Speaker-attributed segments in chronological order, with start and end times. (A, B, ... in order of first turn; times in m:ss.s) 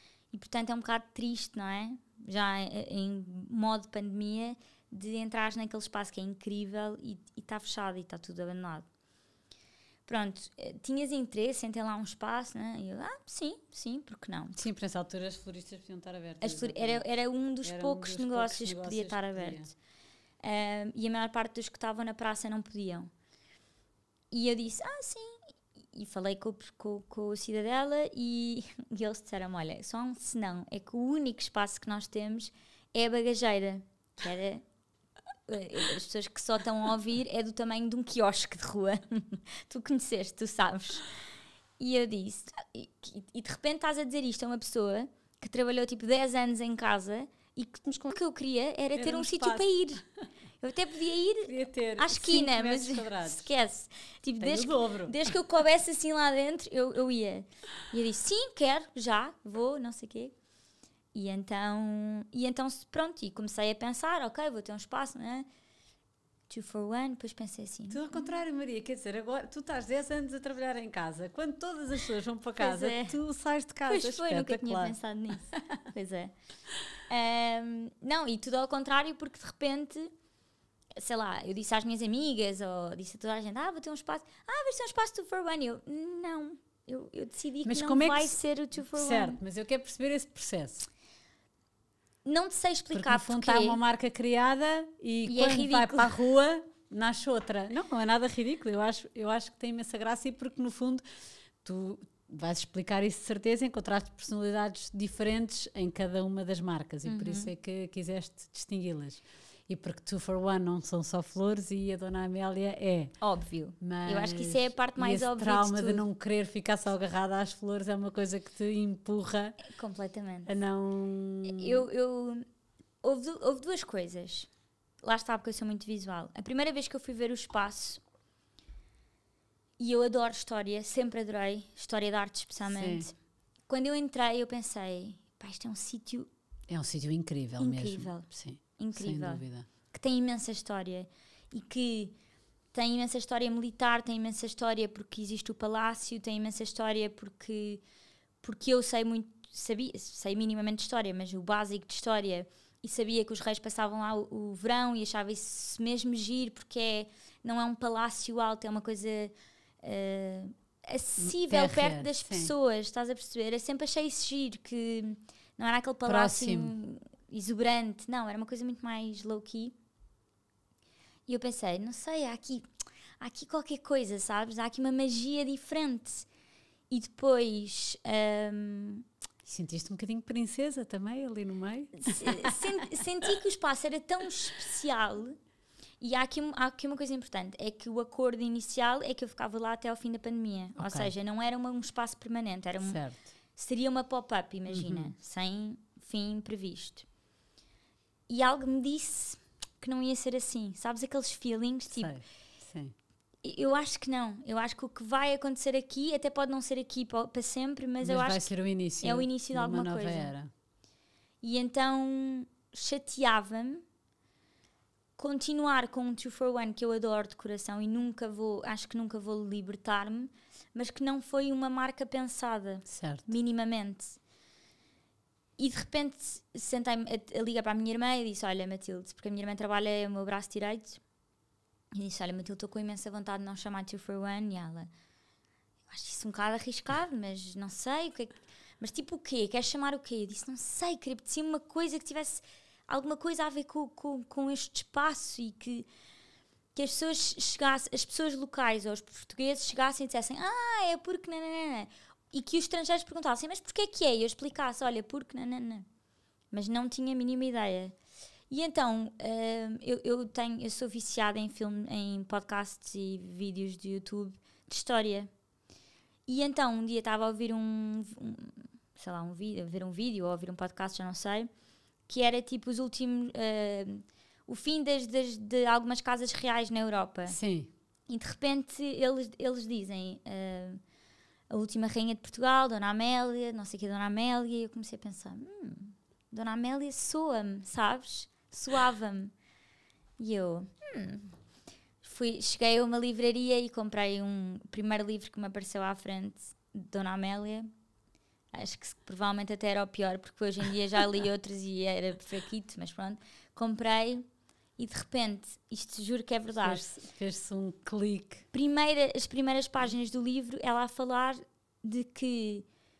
0:00.3-0:08.9 A
0:10.1-0:14.6 A
0:14.6-0:17.0 B
0:16.4-0:19.7 A
0:17.6-0:19.7 B
0:20.4-0:23.1 A
0:24.3-0:25.4 A
0:25.9-0:34.6 A
0:35.5-0:41.1 A
0:41.8-0:50.0 A
0:49.0-0:49.7 B
0:50.6-1:00.3 A
0:51.4-0:53.5 B
0:54.4-0:55.2 B
1:01.1-1:05.5 A
1:06.5-1:08.2 A
1:07.9-1:15.0 B
1:12.6-1:13.2 A
1:13.9-1:16.3 A
1:17.1-1:20.1 A
1:21.0-1:29.4 A
1:27.6-1:30.9 B
1:32.2-1:33.8 A
1:32.9-1:41.0 B
1:35.3-1:36.1 A
1:41.6-1:53.1 B
1:47.1-1:47.5 A
1:53.2-1:56.0 A
1:53.8-1:59.6 B
1:59.6-2:00.5 A
2:00.5-2:01.8 B
2:01.5-2:02.4 A
2:03.0-2:04.5 A
2:05.0-2:08.0 A
2:09.8-2:13.2 A
2:12.7-2:13.1 B
2:13.7-2:16.3 A
2:16.7-2:19.7 B
2:17.6-2:22.2 A
2:22.7-2:27.8 A
2:28.4-2:49.8 A
2:41.2-2:42.5 B
2:46.1-2:46.7 B
2:51.3-2:52.7 A
2:53.2-2:56.3 A
2:56.9-2:59.0 A
2:59.5-3:02.7 B
3:02.0-3:05.4 A
3:06.0-3:13.0 A
3:10.8-3:11.1 B
3:12.8-3:13.3 B
3:13.6-3:17.1 A
3:14.7-3:15.1 B
3:18.3-3:22.1 A
3:21.9-3:23.0 B
3:23.4-3:28.5 A
3:28.0-3:30.5 B
3:29.0-3:30.3 A
3:31.4-3:33.8 A
3:35.2-3:44.2 A
3:42.9-3:43.3 B
3:45.6-3:51.0 A
3:51.9-3:54.9 A
3:55.9-4:05.9 A
4:06.8-4:15.9 A
4:16.5-4:18.0 A
4:18.5-4:25.3 A
4:26.3-4:31.5 A
4:32.1-4:37.4 A
4:37.3-4:37.7 B
4:38.1-4:40.8 A
4:41.5-4:49.3 A
4:50.2-4:51.4 A
4:52.0-4:57.7 A
4:58.5-5:04.3 A
5:04.8-5:06.8 A
5:06.6-5:08.4 B
5:08.5-5:12.7 A